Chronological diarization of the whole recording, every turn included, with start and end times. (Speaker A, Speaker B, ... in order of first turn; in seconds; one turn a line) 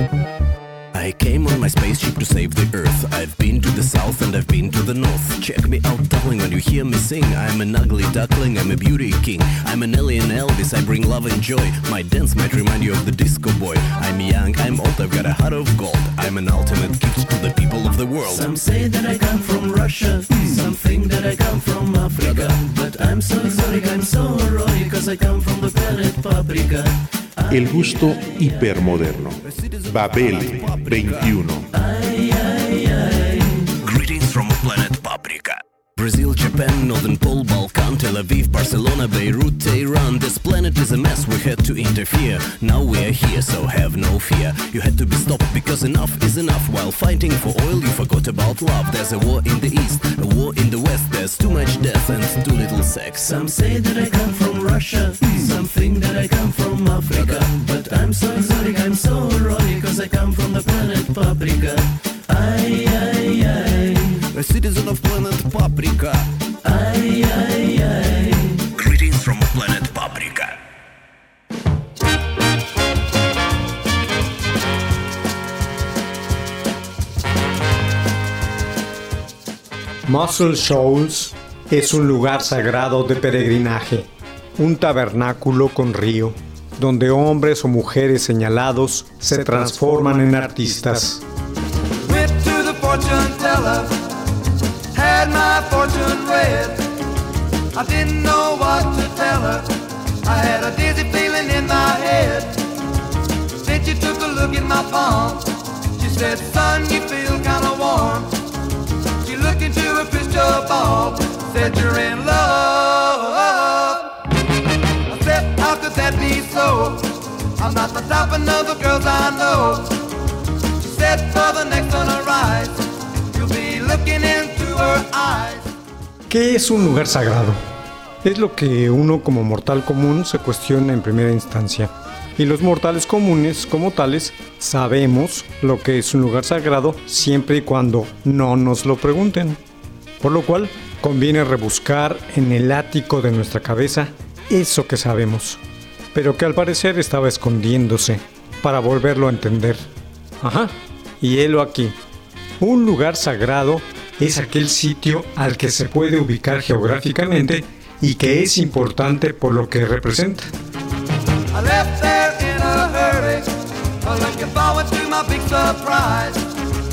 Speaker A: 0.9-18.5
Speaker B: 18.3-28.5
Speaker A: 22.2-22.6
Speaker C: 27.5-29.4
Speaker A: 29.9-31.3
Speaker C: 29.9-31.7
Speaker B: 31.7-33.7
Speaker A: 33.8-53.3
Speaker B: 53.2-64.2
Speaker A: 57.1-57.5
Speaker A: 64.3-66.3
Speaker B: 66.6-68.6
Speaker A: 68.7-70.6
Speaker D: 80.1-91.2
Speaker E: 92.0-94.0
Speaker E: 94.9-96.9
Speaker E: 97.7-99.7
Speaker E: 100.2-102.6
Speaker E: 103.6-108.3
Speaker E: 109.2-114.1
Speaker E: 115.1-120.0
Speaker E: 120.8-122.8
Speaker E: 123.3-125.7
Speaker D: 126.3-127.6
Speaker D: 128.2-139.6
Speaker D: 140.2-145.6
Speaker D: 146.1-149.9
Speaker D: 150.4-152.0
Speaker D: 152.6-160.5
Speaker E: 161.5-166.5